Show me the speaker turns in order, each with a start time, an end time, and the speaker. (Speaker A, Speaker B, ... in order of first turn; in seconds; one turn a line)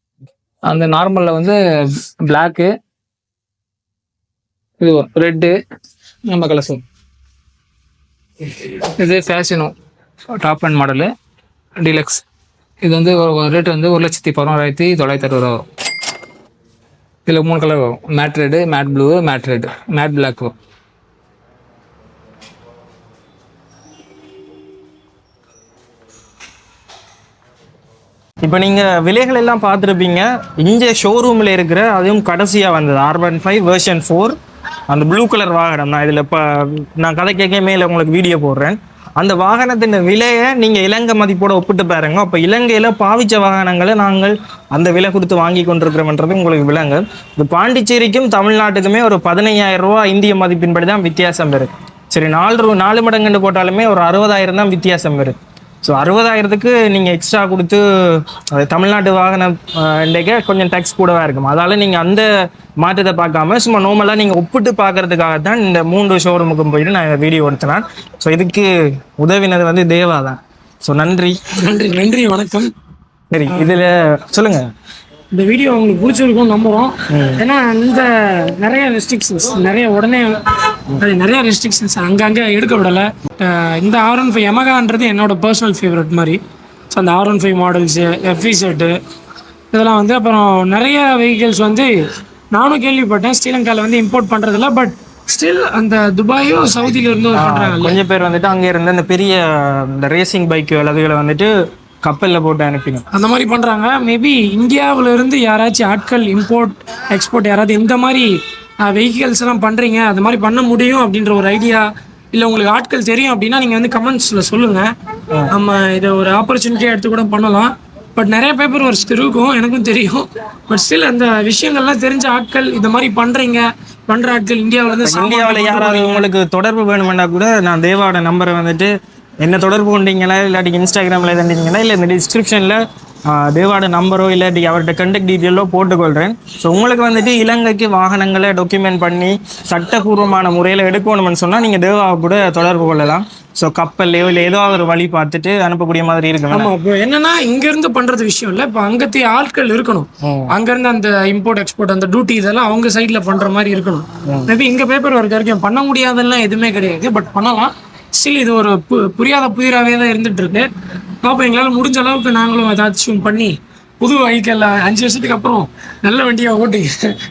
Speaker A: 0.7-2.7
Speaker A: 4.8-5.5
Speaker A: 6.3-6.8
Speaker A: 8.4-9.7
Speaker A: 10.4-11.1
Speaker A: 11.8-12.2
Speaker A: 12.8-15.6
Speaker A: 17.2-20.5
Speaker B: 28.4-34.4
Speaker B: 34.9-62.3
Speaker B: 62.8-71.4
Speaker C: 71.5-72.7
Speaker B: 73.3-74.7
Speaker C: 73.5-73.8
Speaker C: 75.3-80.4
Speaker B: 77.1-77.4
Speaker C: 81.0-86.4
Speaker C: 86.9-89.0
Speaker C: 89.7-91.9
Speaker C: 92.5-98.0
Speaker B: 97.3-101.5
Speaker B: 102.0-103.0
Speaker C: 103.1-114.9
Speaker C: 115.5-126.2
Speaker B: 125.0-128.9
Speaker B: 129.4-146.7
Speaker C: 146.5-160.7
Speaker B: 150.2-150.5
Speaker B: 154.2-154.5
Speaker C: 161.2-166.9